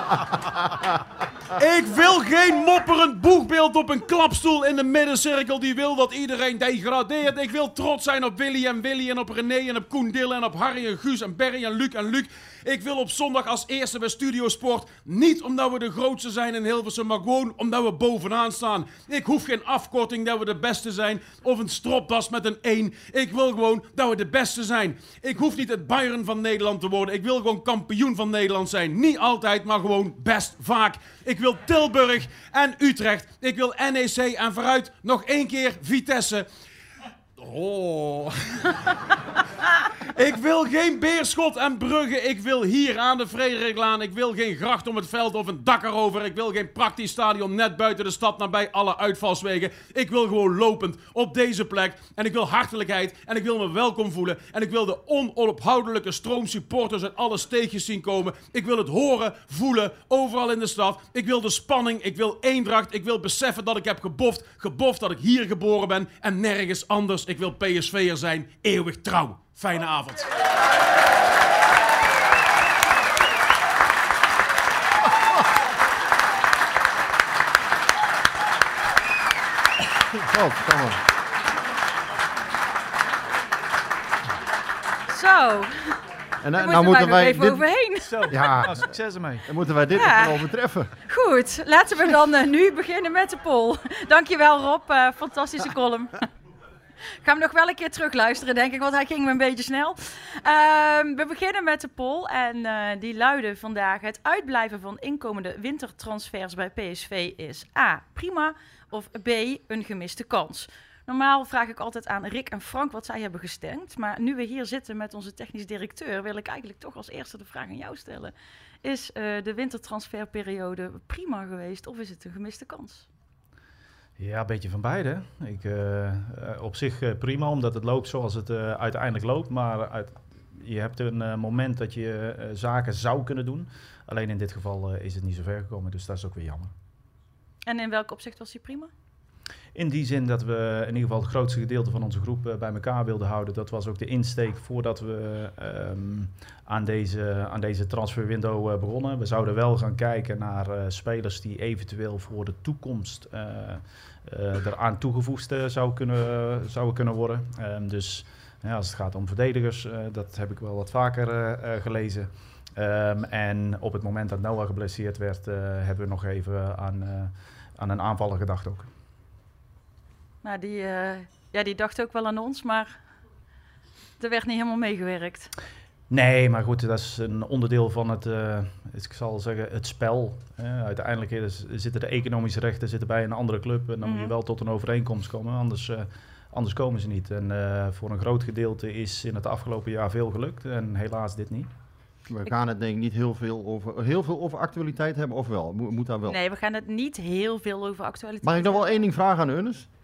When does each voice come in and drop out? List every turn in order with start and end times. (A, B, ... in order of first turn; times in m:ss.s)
0:01.6-0:36.5 A
0:37.4-0:38.9 A
0:40.2-1:10.3 A
1:20.2-1:21.0 B
1:25.1-1:26.0 C
1:26.4-1:27.7 B
1:26.6-1:28.2 C
1:28.0-1:29.5 D
1:28.3-1:28.9 B
1:29.5-1:30.9 B
1:30.0-1:30.4 C
1:31.1-1:36.3 C
1:37.2-2:03.1 C
2:04.2-2:16.7 D
2:17.7-2:18.9 C
2:19.8-2:48.9 D
2:50.4-2:53.0 C
2:54.2-2:55.5 C
2:56.1-3:11.7 D
3:04.0-3:04.3 C
3:12.3-3:16.4 B
3:16.3-3:19.0 C
3:18.4-3:19.9 B